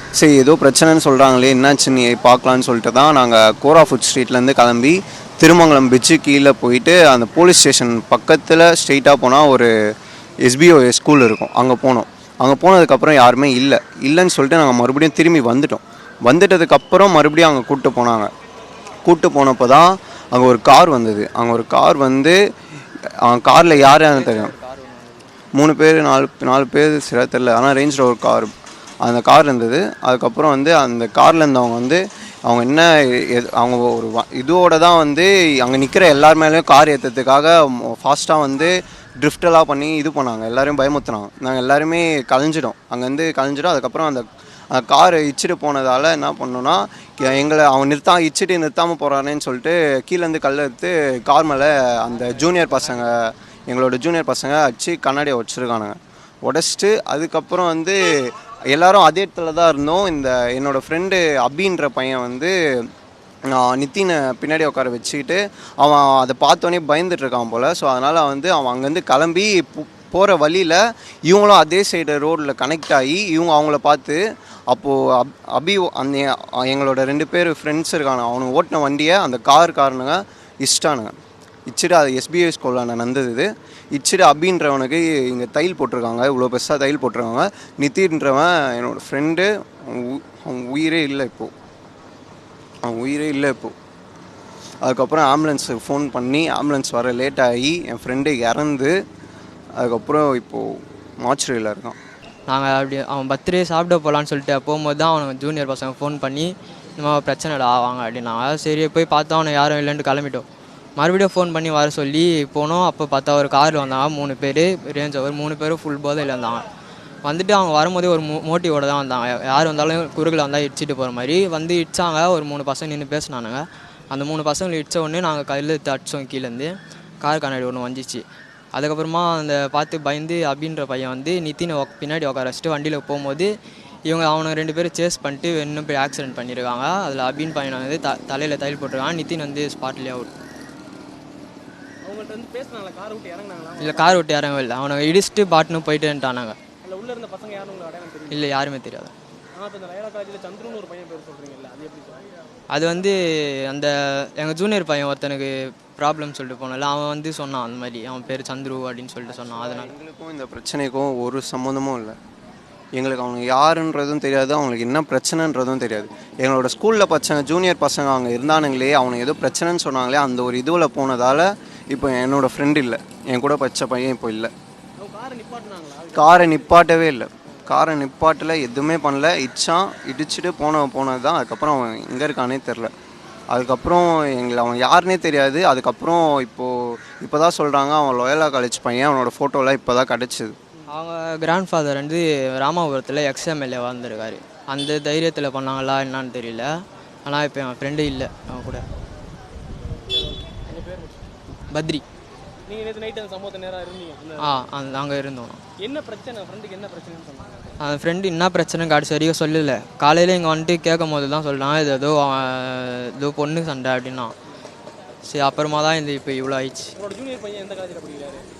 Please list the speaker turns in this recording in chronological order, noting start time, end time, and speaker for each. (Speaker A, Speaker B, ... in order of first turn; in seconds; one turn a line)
Speaker A: 0.2-9.7
Speaker A: 10.4-18.3
Speaker A: 19.0-22.4
Speaker A: 23.2-24.5
Speaker B: 23.6-25.3
Speaker A: 25.5-28.5
Speaker A: 29.0-62.5
Speaker B: 52.0-53.2
Speaker A: 63.5-74.2
Speaker A: 74.7-81.1
Speaker A: 81.7-91.5
Speaker A: 92.8-93.7
Speaker A: 94.8-98.9
Speaker A: 99.8-102.0
Speaker B: 102.5-110.4
Speaker B: 111.0-116.7
Speaker B: 117.2-133.5
Speaker B: 134.1-140.3
Speaker C: 142.0-144.2
Speaker B: 143.8-146.6
Speaker C: 146.8-148.5
Speaker B: 148.3-149.1
Speaker C: 149.6-152.3
Speaker B: 152.7-159.9
Speaker A: 159.3-162.2
Speaker A: 163.0-174.5
Speaker C: 175.0-176.9
Speaker A: 176.1-182.9
Speaker A: 183.5-190.6
Speaker B: 190.9-196.7
Speaker B: 197.2-198.8
Speaker C: 200.1-201.3
Speaker B: 201.7-202.0
Speaker C: 202.7-204.6
Speaker B: 204.4-205.6
Speaker C: 205.8-207.8
Speaker B: 207.8-214.3
Speaker B: 215.2-216.9
Speaker C: 216.9-218.4